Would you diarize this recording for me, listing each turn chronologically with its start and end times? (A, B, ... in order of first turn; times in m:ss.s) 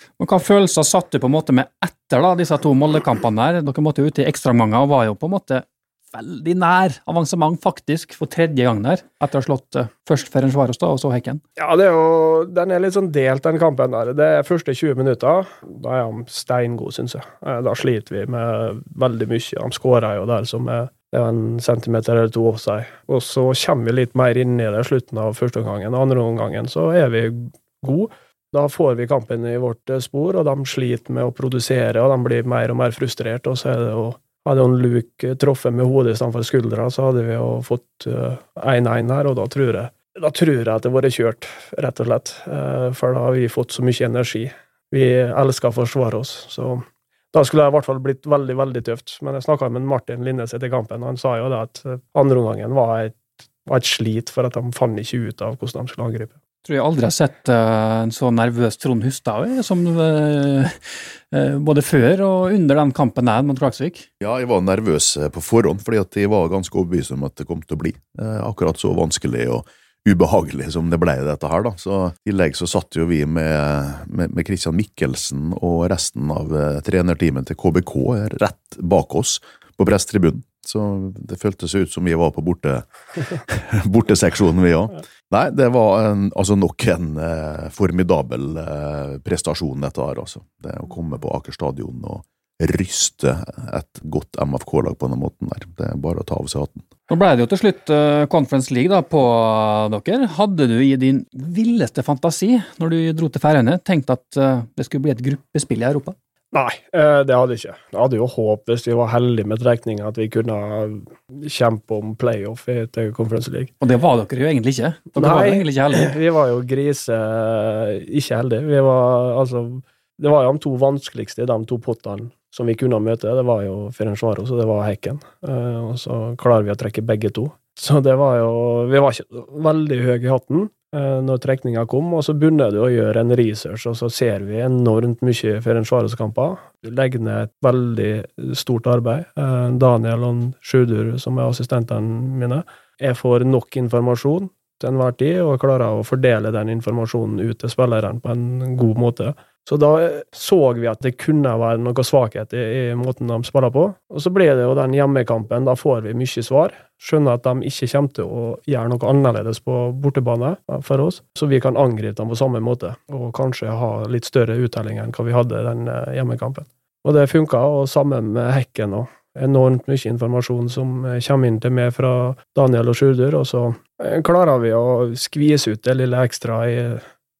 0:00.2-0:11.4 A
0:11.6-0:56.3 B
0:56.6-1:04.0 A
1:04.2-1:36.9 C
1:37.1-1:46.1 A
1:46.5-1:53.7 B
1:53.8-1:56.1 A
1:55.2-2:57.0 B